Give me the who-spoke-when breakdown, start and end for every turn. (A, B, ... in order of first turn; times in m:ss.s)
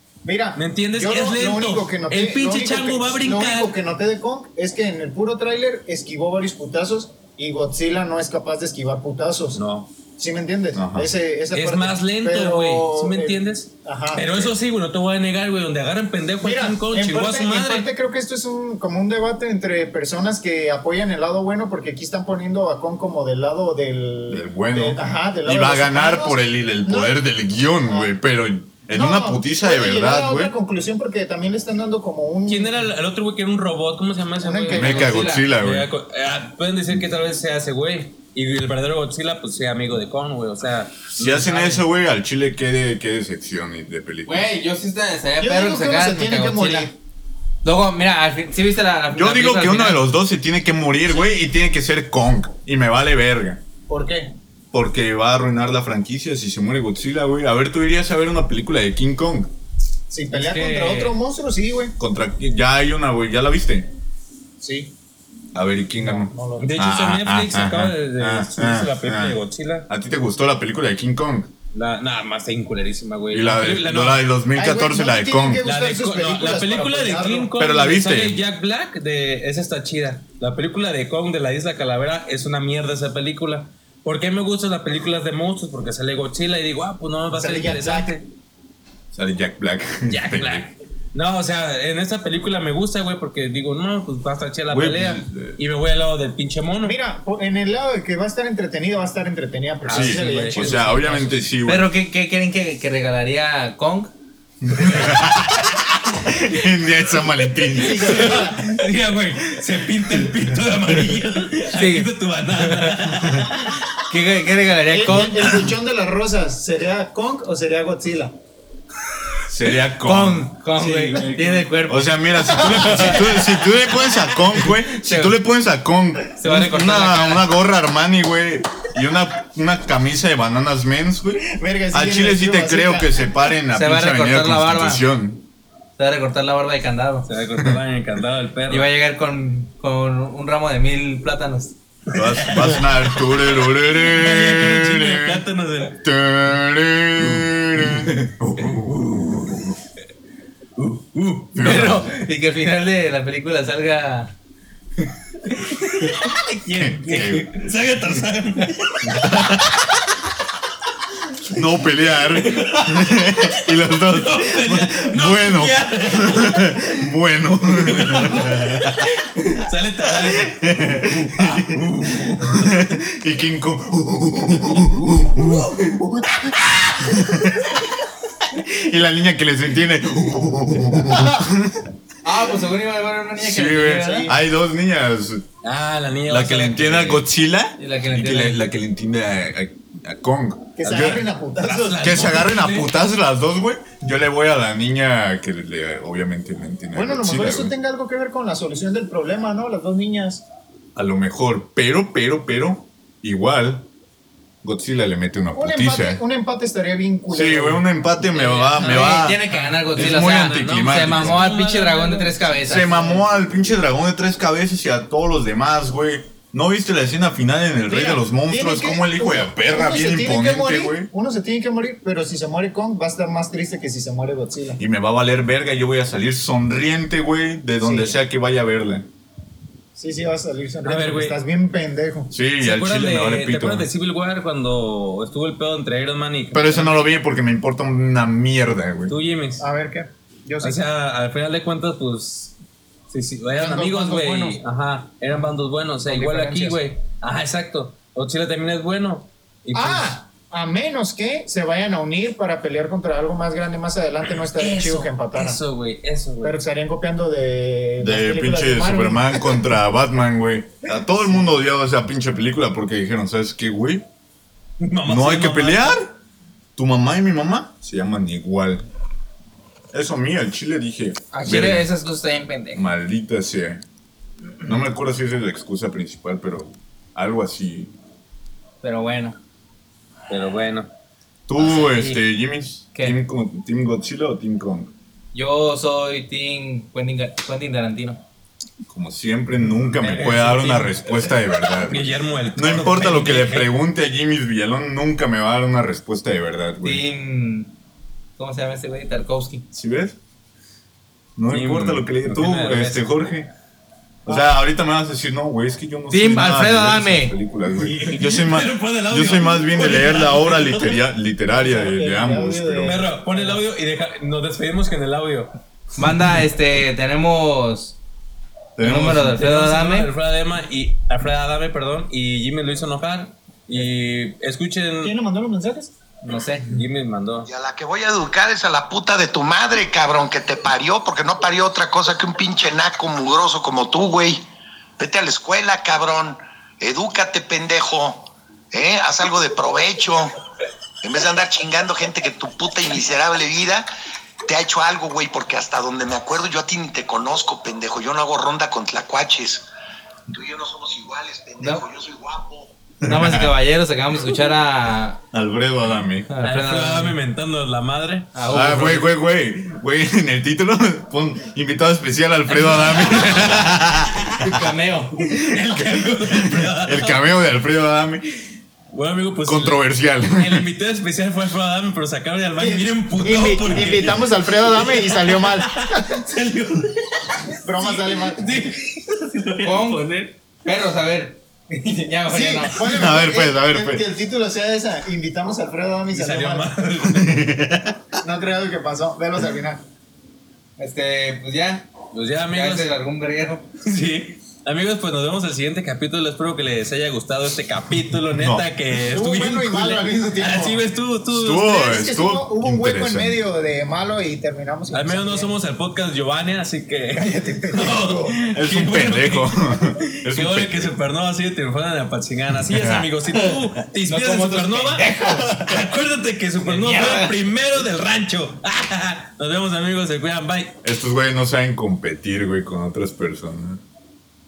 0:00.2-0:09.6 A
0:00.5-0:03.7 B
0:09.5-0:09.9 B
0:10.2-0:14.5 A
0:10.7-0:11.1 C
0:11.5-0:17.9 B
0:16.4-0:27.2 A
0:24.3-0:30.5 C
0:28.9-0:32.9 A
0:32.5-0:41.9 B
0:34.4-0:35.2 A
0:34.7-0:35.4 D
0:34.7-0:35.9 C
0:41.2-0:44.5 C
0:44.2-0:46.9 D
0:45.4-0:46.9 A
0:47.6-0:50.0 D
0:49.1-0:53.6 C
0:53.9-0:54.3 A
0:54.7-0:59.5 C
1:00.1-1:01.9 A
1:00.3-1:01.2 B
1:02.0-1:03.9 C
1:04.6-1:04.9 A
1:05.5-1:09.4 C
1:06.0-1:06.9 A
1:06.6-1:09.9 B
1:09.9-1:11.5 C
1:11.7-1:14.2 B
1:13.3-1:15.6 C
1:14.5-1:17.5 A
1:15.6-1:28.2 B
1:17.6-1:18.4 C
1:27.3-1:28.1 A
1:29.1-1:30.7 C
1:30.1-1:37.0 B
1:34.7-1:35.6 C
1:36.8-1:41.1 A
1:39.8-1:41.4 B
1:39.9-1:41.9 C
1:41.6-1:44.1 D
1:44.7-1:48.3 C
1:44.8-1:45.1 B
1:47.7-1:53.8 B
1:47.7-1:48.7 A
1:51.7-1:53.0 D
1:53.2-1:53.5 C
1:54.1-1:55.6 D
1:54.9-1:58.4 A
1:59.5-2:00.5 C
2:00.0-2:02.0 D
2:00.7-2:01.7 B
2:01.8-2:15.4 C
2:02.5-2:03.6 A
2:02.6-2:03.2 D
2:04.9-2:05.4 D
2:06.4-2:07.5 D
2:11.4-2:13.3 A
2:13.7-2:15.0 D
2:16.0-2:17.3 D
2:17.2-2:18.9 B
2:18.7-2:21.7 D
2:22.1-2:25.4 C
2:22.1-2:26.0 B
2:26.0-2:29.7 C
2:27.8-2:28.2 B
2:28.7-2:29.7 B
2:30.8-2:31.5 B
2:31.5-2:32.1 C
2:31.6-2:34.3 D
2:35.5-2:39.4 B
2:36.7-2:37.7 C
2:39.3-2:39.8 C
2:41.5-2:49.1 C
2:42.2-2:47.0 B
2:47.7-2:52.8 B
2:50.2-2:55.8 C
2:56.4-2:57.9 C
2:58.5-3:01.9 C
3:02.2-3:04.3 D
3:03.4-3:05.4 C
3:04.0-3:04.4 A
3:05.6-3:07.2 B
3:06.3-3:11.3 C
3:07.8-3:08.6 D
3:10.8-3:12.2 A
3:11.6-3:12.9 B
3:12.0-3:17.7 C
3:16.9-3:20.4 A
3:20.9-3:23.9 C
3:24.6-3:26.2 C
3:25.5-3:27.8 A
3:27.3-3:29.4 C
3:28.3-3:32.9 D
3:29.8-3:32.4 B
3:29.9-3:31.4 C
3:32.6-3:41.1 C
3:32.7-3:33.2 A
3:37.9-3:44.8 A
3:44.8-3:49.1 C
3:47.8-3:48.2 A
3:49.9-3:52.3 A
3:50.8-3:51.4 B
3:52.3-3:53.9 C
3:52.6-3:57.1 B
3:56.5-3:59.1 C
3:59.1-3:59.7 B
3:59.6-4:00.8 A
4:00.6-4:02.5 B
4:03.1-4:10.2 B
4:03.6-4:04.6 D
4:06.1-4:06.8 D
4:09.7-4:15.6 A
4:14.5-4:16.6 B
4:16.4-4:19.7 A
4:18.0-4:24.0 C
4:24.8-4:26.0 B
4:25.0-4:26.1 C
4:26.8-4:28.8 C
4:29.9-4:31.9 C
4:31.3-4:32.8 D
4:32.7-4:33.8 C
4:34.6-4:37.9 C
4:38.8-4:39.4 D
4:40.3-4:40.9 B
4:41.5-4:44.9 C
4:41.6-4:42.2 D
4:45.3-4:48.2 D
4:48.9-4:57.0 C
4:50.0-4:53.7 B
4:50.0-4:50.9 D
4:56.8-4:57.7 D
4:58.4-4:59.6 D
4:59.7-5:00.2 C
5:01.4-5:03.5 C
5:01.5-5:03.0 B
5:04.2-5:13.0 C
5:04.3-5:04.5 A
5:06.1-5:07.3 D
5:07.8-5:11.0 B
5:11.5-5:13.5 A
5:12.8-5:15.5 B
5:16.0-5:18.0 D
5:18.8-5:19.3 C
5:18.8-5:20.1 D
5:19.2-5:25.2 B
5:25.0-5:25.9 A
5:26.2-5:26.7 D
5:26.7-5:27.5 B
5:27.4-5:34.4 E
5:35.0-5:40.3 E
5:41.0-5:43.9 E
5:44.4-5:49.6 E
5:50.3-5:52.7 E
5:51.6-5:51.8 D
5:53.0-5:53.5 C
5:53.0-5:55.2 D
5:55.3-5:56.3 C
5:56.3-5:57.2 D
5:56.4-5:59.0 B
5:58.3-5:59.0 D
5:58.5-6:04.7 C
6:02.5-6:03.8 D
6:03.1-6:03.4 B
6:04.4-6:05.2 D
6:05.2-6:07.3 B
6:05.5-6:08.5 C
6:08.9-6:20.3 B
6:09.4-6:10.7 C
6:13.2-6:16.2 A
6:17.6-6:18.4 A
6:19.6-6:20.0 D
6:20.6-6:22.8 D
6:22.3-6:26.7 A
6:22.8-6:24.0 C
6:26.1-6:27.5 B
6:27.0-6:28.0 C
6:28.2-6:29.8 A
6:30.8-6:31.9 D
6:32.1-6:32.9 B
6:32.5-6:33.6 D
6:33.8-6:41.6 B
6:38.3-6:38.6 C
6:39.0-6:40.8 A
6:41.3-6:43.4 C
6:41.6-6:45.5 A
6:44.9-7:00.8 B
6:47.2-6:48.3 A
6:48.4-6:50.9 C
6:52.6-6:53.1 C
6:54.0-6:55.9 D
6:56.6-6:57.4 D
7:00.8-7:03.8 C